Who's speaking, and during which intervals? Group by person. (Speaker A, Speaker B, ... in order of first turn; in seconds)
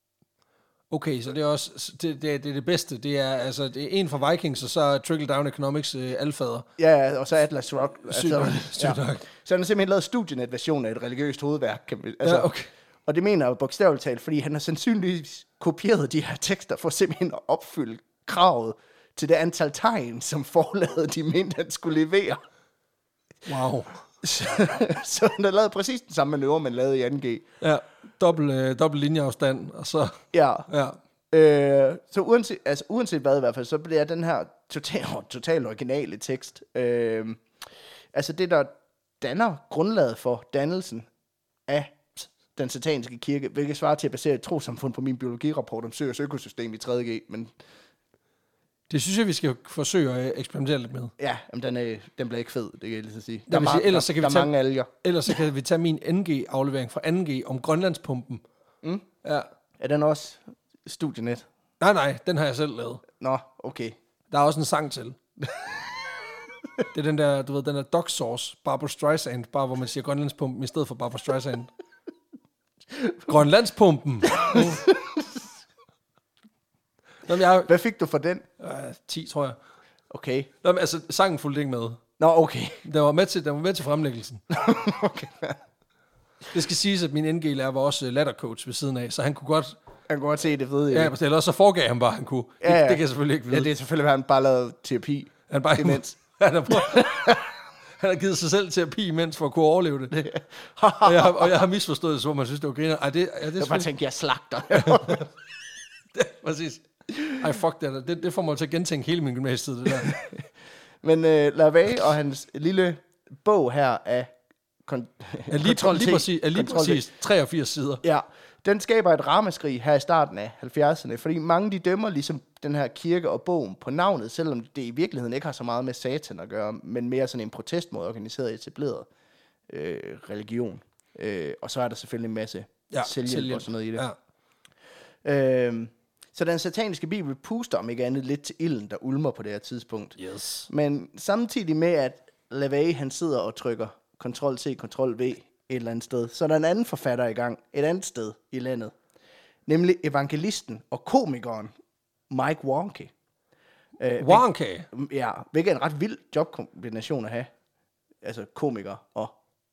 Speaker A: 0.9-6.7, 8.1-9.2, 12.2-12.7, 23.4-24.0, 27.6-31.0, 48.9-51.1, 53.5-58.4, 61.8-63.0, 64.3-65.2, 66.9-71.7, 73.2-74.9, 77.3-77.7, 78.6-79.6, 80.6-82.0, 82.8-84.4, 86.5-89.8, 90.9-93.7, 95.5-97.4, 98.0-100.3, 101.0-103.9, 104.7-105.3, 106.1-110.2, 115.5-118.0, 132.9-134.2, 140.2-140.7, 154.2-154.9
Speaker B: 6.8-12.5, 13.1-22.4, 24.2-27.4, 30.3-30.7, 31.3-37.4, 38.1-41.1, 41.7-47.5, 51.2-55.3, 59.8-61.4, 63.2-64.0, 74.3-75.4, 77.7-78.4, 80.1-80.5, 82.2-82.8, 84.5-85.6, 90.1-91.1, 92.6-96.1, 96.7-97.5, 100.2-101.5, 103.6-105.2, 109.9-110.4, 111.0-114.3, 114.8-117.0, 118.0-129.1, 129.7-134.0, 135.2-140.2, 140.7-148.9, 149.7-151.7, 152.3-153.1, 154.0-157.5, 158.2-159.3